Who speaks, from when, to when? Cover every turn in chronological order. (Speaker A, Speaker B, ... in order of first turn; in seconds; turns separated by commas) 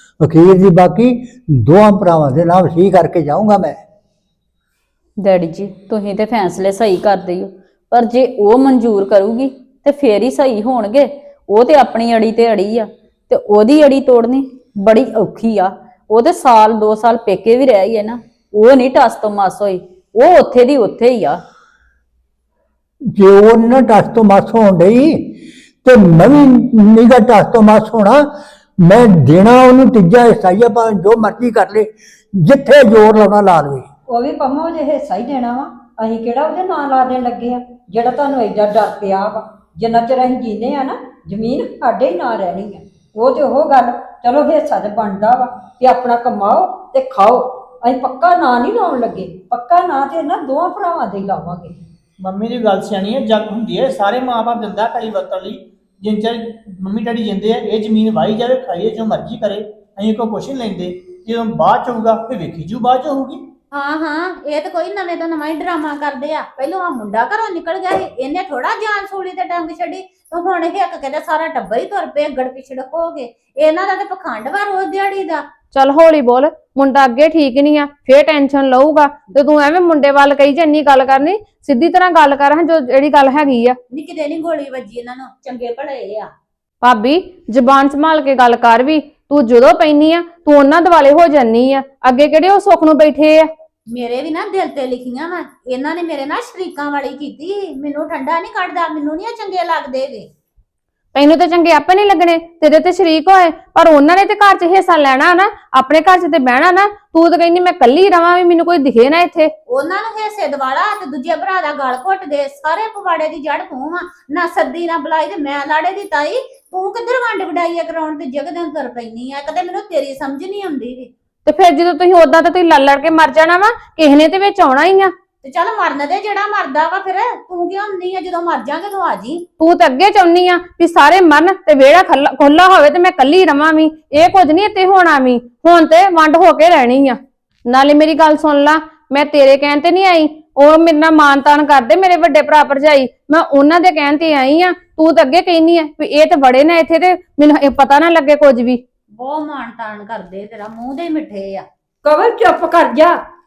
Speaker A: 0.2-3.8, Speaker B: 5.2-21.4, Speaker A: 23.1-33.9, Speaker C: 34.1-51.8, Speaker D: 52.2-63.4, Speaker E: 63.7-75.5, Speaker F: 75.7-83.8, Speaker E: 83.9-86.3, Speaker F: 86.8-93.5, Speaker E: 93.9-100.3, Speaker F: 101.1-109.5, Speaker E: 109.7-121.1, Speaker F: 121.5-125.1, Speaker E: 125.4-129.5, Speaker F: 129.6-148.8, Speaker E: 149.1-151.7, Speaker C: 152.0-153.2